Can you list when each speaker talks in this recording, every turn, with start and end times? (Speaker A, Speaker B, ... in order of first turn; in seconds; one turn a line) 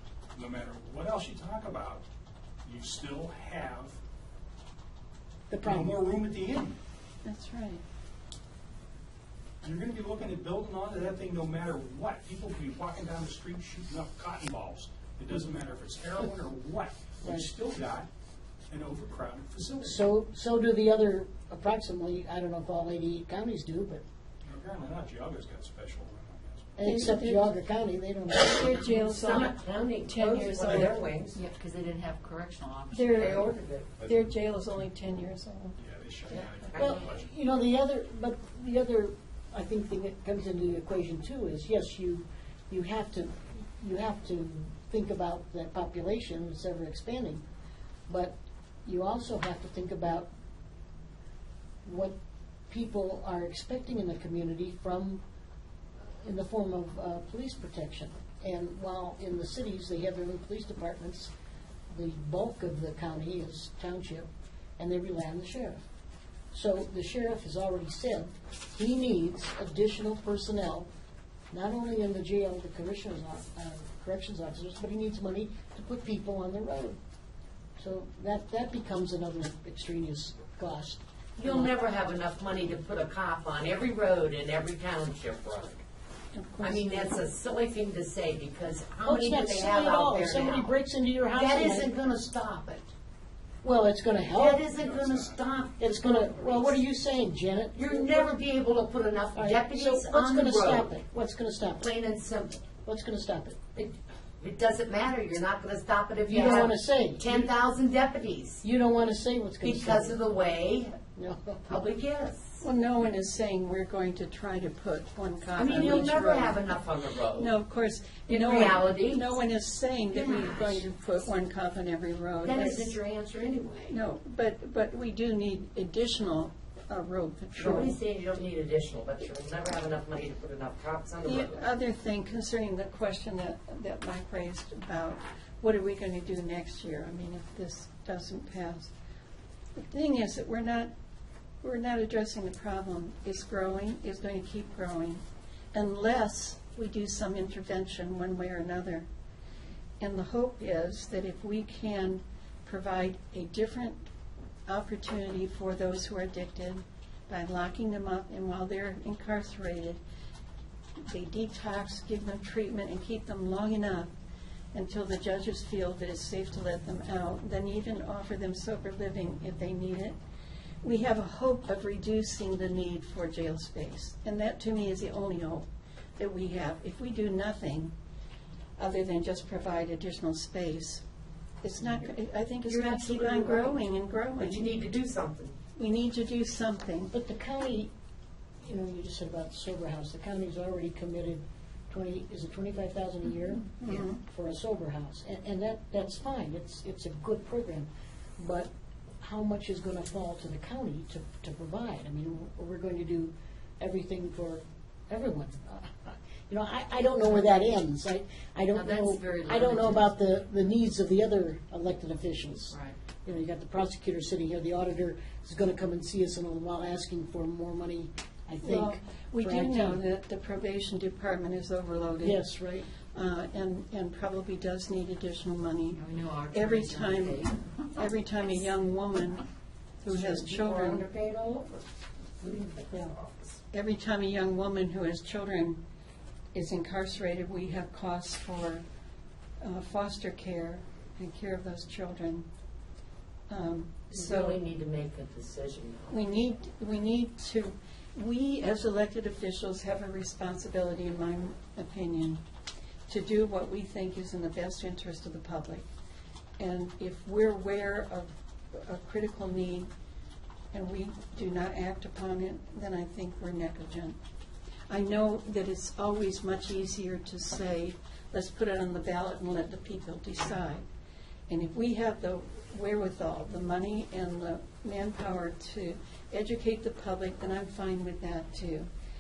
Speaker A: 0.3-2.0
Speaker A: 2.6-4.0
Speaker B: 5.5-6.0
Speaker A: 5.6-6.8
Speaker C: 7.2-7.8
Speaker A: 9.6-18.1
Speaker A: 18.7-20.0
Speaker B: 19.8-24.0
Speaker A: 24.4-26.9
Speaker B: 26.8-28.8
Speaker C: 26.8-27.5
Speaker C: 28.3-31.0
Speaker D: 28.8-31.4
Speaker E: 31.3-33.5
Speaker C: 32.9-33.5
Speaker D: 33.1-33.9
Speaker C: 34.0-35.8
Speaker A: 35.8-37.3
Speaker D: 36.3-37.0
Speaker B: 36.8-47.4
Speaker B: 48.1-50.3
Speaker B: 51.8-52.1
Speaker B: 52.7-55.2
Speaker B: 56.2-61.3
Speaker B: 61.9-65.8
Speaker B: 66.5-70.9
Speaker B: 71.5-77.0
Speaker B: 77.8-81.7
Speaker D: 81.4-85.8
Speaker C: 86.3-87.2
Speaker D: 86.6-90.7
Speaker B: 89.0-91.9
Speaker D: 91.3-92.9
Speaker B: 93.6-94.6
Speaker D: 94.3-96.8
Speaker A: 94.8-95.4
Speaker B: 95.8-98.2
Speaker D: 97.7-100.9
Speaker B: 99.3-101.8
Speaker D: 101.8-102.7
Speaker B: 102.8-103.6
Speaker D: 103.7-108.6
Speaker B: 106.3-107.5
Speaker B: 108.6-110.2
Speaker D: 109.6-111.0
Speaker B: 111.2-111.8
Speaker D: 111.7-112.6
Speaker C: 112.6-116.7
Speaker D: 115.5-117.5
Speaker C: 117.3-123.0
Speaker D: 118.3-119.3
Speaker D: 120.1-120.8
Speaker D: 122.4-124.0
Speaker C: 123.9-128.0
Speaker D: 127.5-131.6
Speaker C: 131.2-138.9
Speaker C: 139.8-140.9
Speaker C: 141.6-149.1
Speaker C: 150.0-154.1
Speaker C: 154.7-160.0
Speaker C: 161.1-164.1
Speaker C: 164.7-170.2
Speaker C: 170.8-177.9
Speaker C: 178.8-181.0
Speaker C: 181.6-184.8
Speaker D: 181.8-182.1
Speaker D: 182.6-183.8
Speaker D: 184.4-185.5
Speaker C: 185.8-187.1
Speaker B: 187.1-187.9
Speaker B: 188.6-220.0
Speaker C: 193.7-194.2
Speaker E: 208.7-210.1
Speaker E: 212.7-213.0
Speaker C: 218.6-222.5
Speaker B: 222.2-222.9
Speaker C: 223.1-229.4
Speaker E: 225.9-227.6
Speaker C: 230.0-231.0
Speaker D: 230.1-231.8
Speaker D: 232.4-233.6
Speaker C: 233.7-235.8
Speaker C: 236.5-238.8
Speaker C: 239.6-242.5
Speaker C: 243.5-244.6
Speaker D: 244.1-246.2
Speaker C: 246.1-252.4
Speaker C: 253.1-255.8
Speaker C: 256.6-259.9
Speaker C: 260.7-264.2
Speaker C: 264.9-270.8
Speaker C: 271.5-278.9